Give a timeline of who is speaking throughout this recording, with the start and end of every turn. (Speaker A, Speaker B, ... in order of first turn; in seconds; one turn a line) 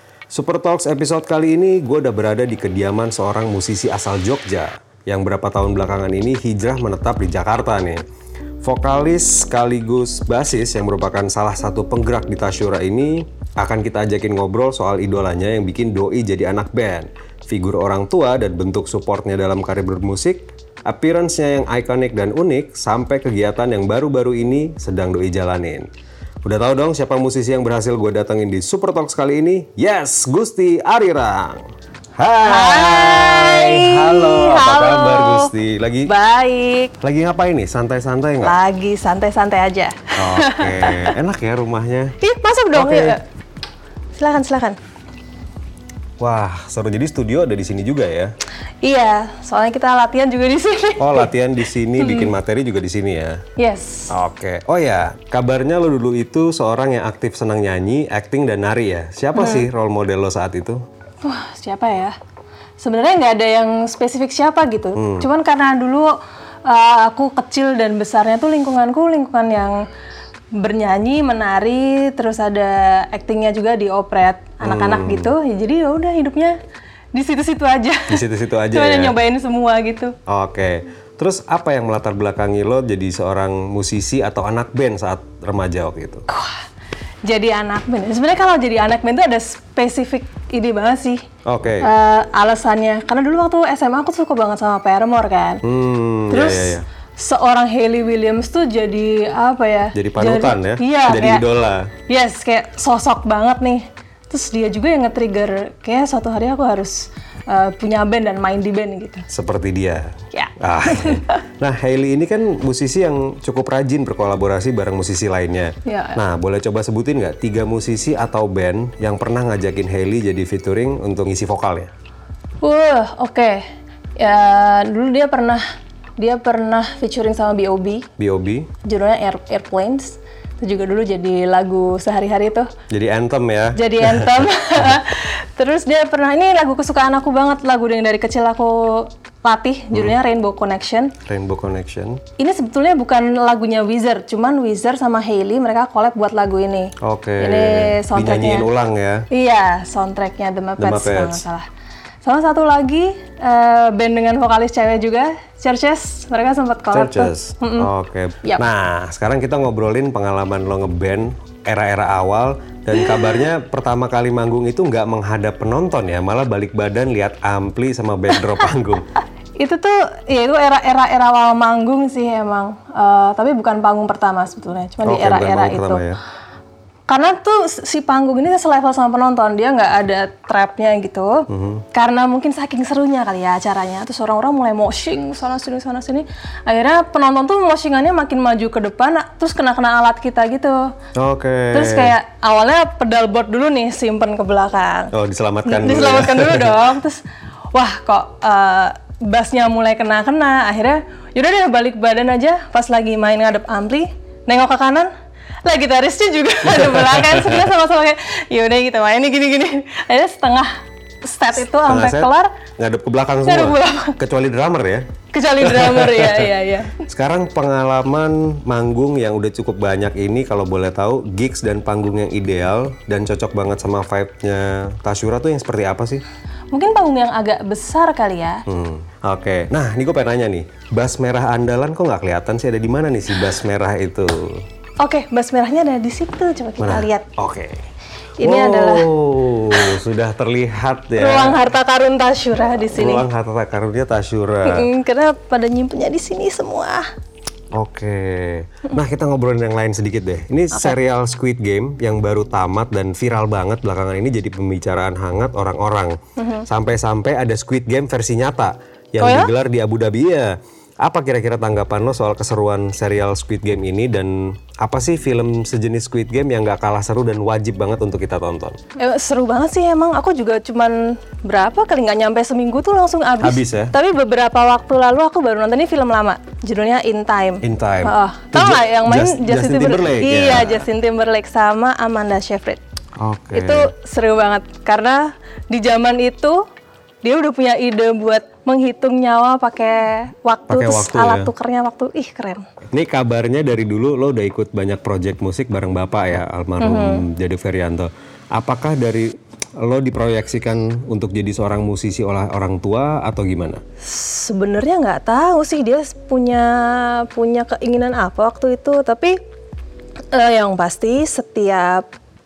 Speaker A: 0.3-8.0
Speaker A: 8.6-25.9
Speaker A: 26.4-31.6
Speaker A: 32.2-36.1
Speaker B: 32.4-35.5
Speaker B: 36.0-36.9
Speaker A: 37.0-38.5
Speaker B: 38.4-41.1
Speaker A: 40.1-42.1
Speaker B: 42.2-43.2
Speaker A: 42.7-43.2
Speaker B: 44.1-44.8
Speaker A: 46.2-48.3
Speaker B: 48.8-51.3
Speaker A: 51.0-53.4
Speaker B: 52.0-52.3
Speaker B: 53.6-54.1
Speaker A: 54.1-60.8
Speaker B: 59.3-59.7
Speaker B: 61.2-62.1
Speaker B: 62.8-66.1
Speaker A: 65.0-65.3
Speaker B: 66.7-69.8
Speaker B: 70.6-76.6
Speaker A: 74.6-75.3
Speaker B: 77.1-80.1
Speaker A: 78.1-79.1
Speaker A: 80.3-86.2
Speaker B: 86.3-86.6
Speaker B: 87.2-91.2
Speaker A: 91.5-91.9
Speaker B: 91.8-95.6
Speaker A: 95.6-96.8
Speaker B: 96.3-101.4
Speaker A: 99.9-101.9
Speaker B: 102.1-109.2
Speaker A: 109.3-121.9
Speaker B: 110.3-111.4
Speaker B: 115.8-116.2
Speaker B: 122.6-123.7
Speaker B: 124.2-125.6
Speaker B: 126.2-128.1
Speaker A: 128.2-128.7
Speaker B: 128.8-132.7
Speaker A: 132.9-135.0
Speaker B: 133.8-141.1
Speaker A: 141.2-142.2
Speaker B: 142.4-148.7
Speaker A: 147.0-149.3
Speaker B: 149.3-151.7
Speaker A: 150.8-151.4
Speaker B: 152.2-157.9
Speaker A: 156.9-169.1
Speaker B: 169.6-176.0
Speaker A: 175.1-176.2
Speaker B: 177.1-190.8
Speaker A: 181.5-181.8
Speaker A: 191.2-192.1
Speaker B: 191.7-195.1
Speaker A: 195.1-196.8
Speaker B: 195.6-197.2
Speaker B: 197.7-205.1
Speaker B: 205.6-210.7
Speaker A: 206.6-207.7
Speaker B: 211.2-212.5
Speaker A: 211.6-215.1
Speaker B: 213.4-214.2
Speaker B: 215.3-217.0
Speaker A: 215.6-226.2
Speaker B: 226.7-228.6
Speaker A: 228.7-234.6
Speaker B: 235.0-237.3
Speaker A: 236.8-237.8
Speaker B: 238.4-239.1
Speaker A: 238.4-241.6
Speaker B: 241.2-243.2
Speaker A: 242.8-244.9
Speaker B: 244.7-247.1
Speaker A: 247.7-256.1
Speaker B: 256.4-256.6
Speaker A: 256.7-268.8
Speaker B: 259.2-259.5
Speaker B: 269.0-282.8
Speaker A: 273.4-273.9
Speaker A: 277.6-280.8
Speaker A: 283.2-283.9
Speaker B: 283.5-286.6
Speaker B: 287.2-292.6
Speaker A: 290.7-291.5
Speaker A: 292.9-303.8
Speaker B: 296.8-297.2
Speaker B: 304.0-309.4
Speaker B: 310.3-312.1